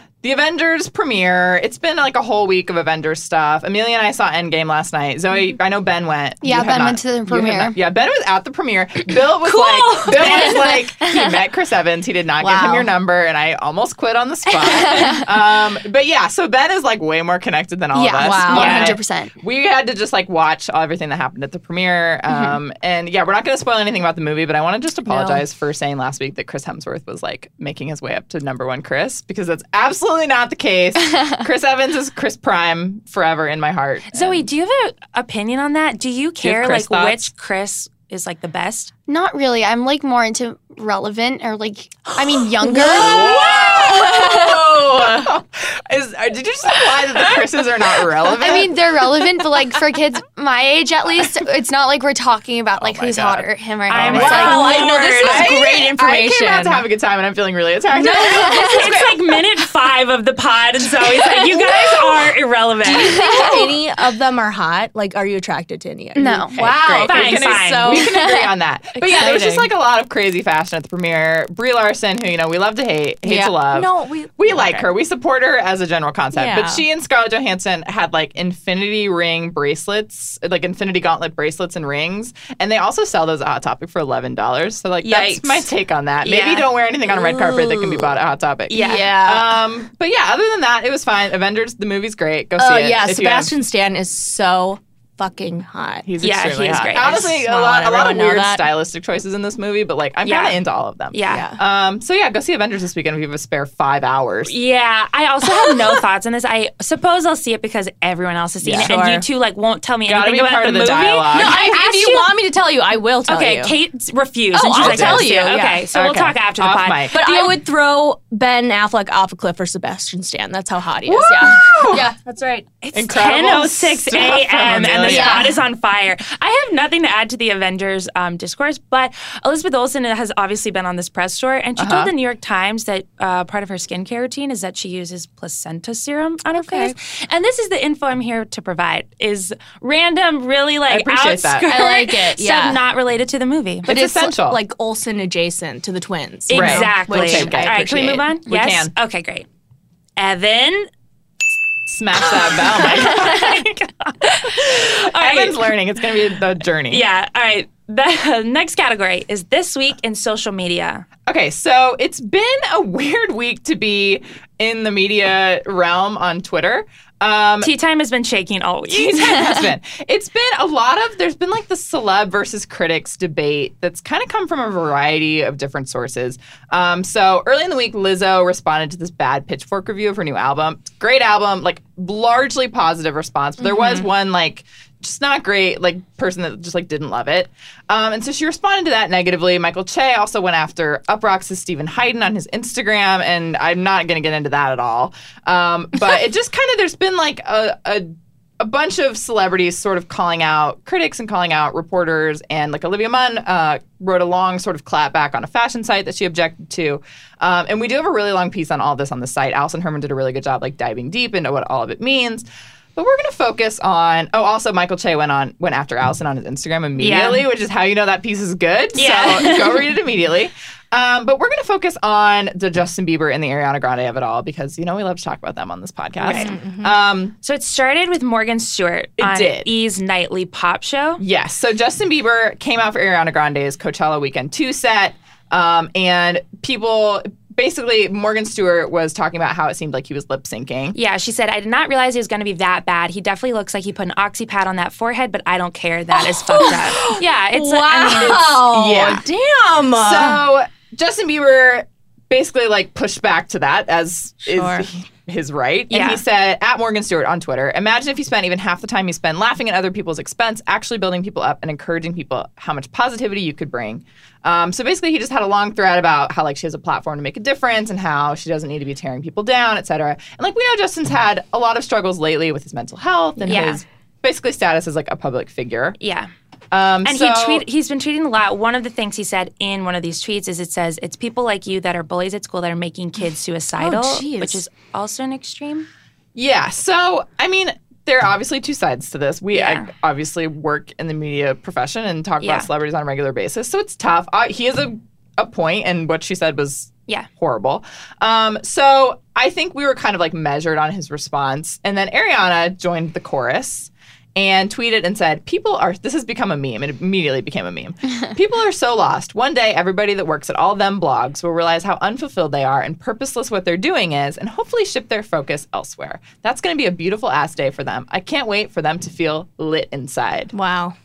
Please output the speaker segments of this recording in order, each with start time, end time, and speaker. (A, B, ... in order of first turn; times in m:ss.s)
0:00.2-0:34.5 A
0:06.4-0:07.8 B
0:09.4-0:10.8 C
0:10.2-0:11.4 B
0:12.4-0:12.9 C
0:14.7-0:15.2 B
0:17.9-0:19.4 B
0:18.2-0:19.0 C
0:18.5-0:19.0 D
0:22.3-0:22.6 B
0:25.1-0:25.4 C
0:34.1-0:38.9 D
0:36.4-0:37.3 A
0:39.1-0:44.6 B
0:42.6-0:45.2 C
0:42.7-0:49.4 A
0:48.3-0:54.8 B
0:52.8-0:59.1 A
0:53.9-0:55.6 D
0:54.0-0:56.8 C
0:57.9-0:59.1 C
0:58.2-1:03.4 D
1:01.1-1:02.0 C
1:02.8-1:09.7 C
1:03.0-1:03.7 B
1:06.2-1:06.6 B
1:06.5-1:33.5 A
1:06.5-1:08.1 D
1:13.2-1:14.9 C
1:16.3-1:16.8 C
1:25.0-1:25.7 D
1:26.2-1:26.7 D
1:27.1-1:28.0 C
1:28.7-1:29.0 D
1:28.7-1:29.6 C
1:32.6-1:36.1 C
1:36.0-1:44.5 A
1:36.2-1:37.3 D
1:36.9-1:38.7 C
1:40.2-1:40.6 D
1:41.1-1:41.4 D
1:41.3-1:41.6 C
1:44.4-1:52.3 D
1:45.4-1:46.0 C
1:48.6-1:49.0 A
1:48.8-1:49.2 C
1:50.1-1:51.6 A
1:51.3-1:53.7 C
1:53.3-1:57.6 D
1:54.5-1:55.8 C
1:54.8-1:55.4 A
1:55.9-1:57.2 A
1:57.1-2:02.7 C
2:01.0-2:02.1 A
2:02.8-2:23.9 D
2:02.9-2:05.5 A
2:05.0-2:05.6 C
2:11.8-2:12.1 A
2:16.6-2:16.9 C
2:20.9-2:21.7 A
2:21.7-2:22.8 C
2:23.8-2:24.6 A
2:23.9-2:27.9 C
2:26.5-2:29.4 D
2:26.5-2:28.9 A
2:30.2-2:30.9 D
2:31.9-2:33.8 A
2:32.2-2:35.7 D
2:34.4-2:37.0 A
2:36.9-2:41.0 D
2:41.3-2:47.7 A
2:47.6-2:49.7 D
2:48.9-3:47.3 A
3:37.0-3:37.4 D
3:39.0-3:39.9 D
3:46.2-3:46.9 C
3:46.2-3:46.5 D
3:47.4-3:51.2 D
3:49.2-3:49.7 A
3:51.2-4:01.0 A
4:00.9-4:08.6 D
4:06.1-4:10.4 C
4:08.1-4:09.2 A
4:09.9-4:36.0 A
4:14.4-4:14.9 C
4:15.9-4:16.2 D
4:33.4-4:33.8 D
4:36.0-4:36.3 D
4:36.7-4:37.6 A
4:37.0-4:45.9 D
4:43.8-4:44.6 C
4:46.3-5:20.5 A
4:49.5-4:49.9 D
4:52.4-4:52.7 D
5:20.5-5:20.9 C